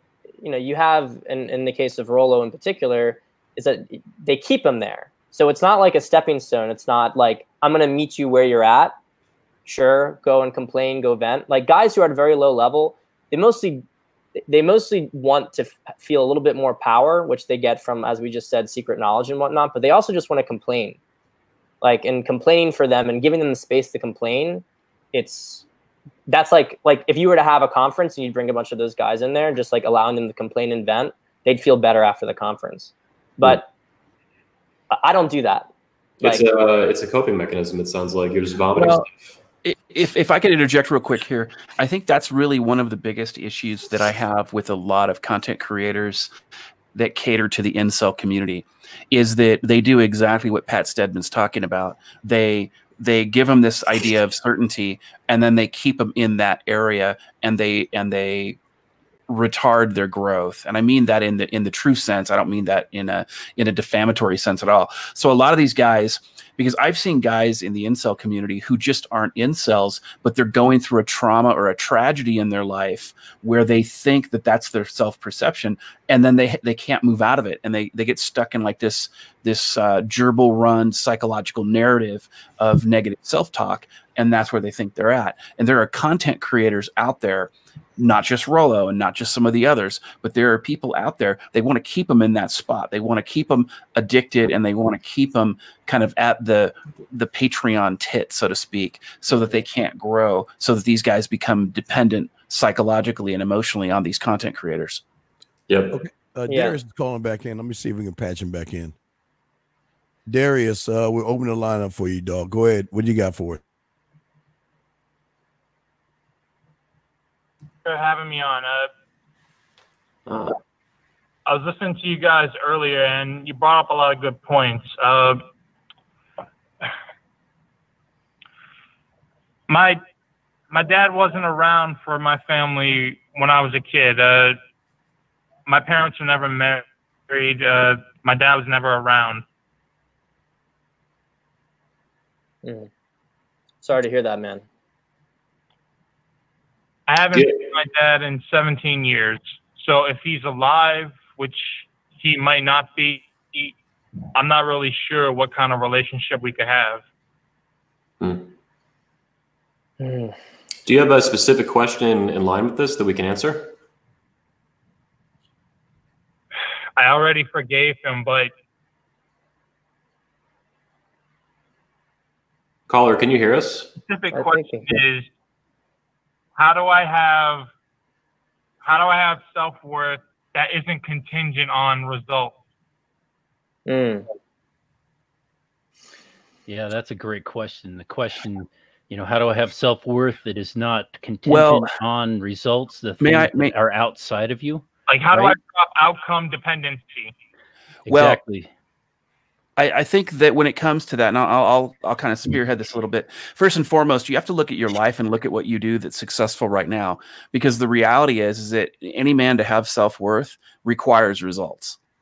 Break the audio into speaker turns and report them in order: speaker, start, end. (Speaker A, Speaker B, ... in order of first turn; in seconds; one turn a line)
Speaker A: 0.4-8.9
Speaker A: 9.7-13.8
Speaker A: 14.5-21.0
Speaker A: 21.8-25.6
Speaker A: 26.3-33.7
Speaker A: 34.9-35.7
Speaker B: 36.2-39.4
Speaker C: 38.8-39.1
Speaker C: 39.6-46.3
Speaker C: 46.9-58.6
Speaker C: 59.3-105.0
Speaker B: 105.7-106.0
Speaker D: 105.9-109.0
Speaker A: 106.5-106.8
Speaker D: 110.3-113.6
Speaker E: 117.8-118.9
Speaker B: 120.3-120.6
Speaker E: 121.5-125.4
Speaker E: 129.7-130.0
Speaker E: 130.7-134.6
Speaker E: 135.7-139.4
Speaker A: 142.6-142.9
Speaker A: 143.8-144.6
Speaker E: 147.1-153.7
Speaker B: 147.3-147.6
Speaker E: 154.3-157.0
Speaker B: 158.2-158.5
Speaker A: 160.0-160.3
Speaker B: 160.9-163.7
Speaker E: 167.0-168.5
Speaker B: 172.9-173.9
Speaker E: 174.1-175.3
Speaker A: 174.3-174.9
Speaker E: 176.6-177.7
Speaker E: 178.8-182.6
Speaker A: 183.9-184.3
Speaker F: 186.7-194.8
Speaker C: 191.5-191.9
Speaker C: 193.2-193.8
Speaker E: 195.1-197.3
Speaker C: 198.1-198.4
Speaker F: 198.1-198.7
Speaker C: 199.8-212.0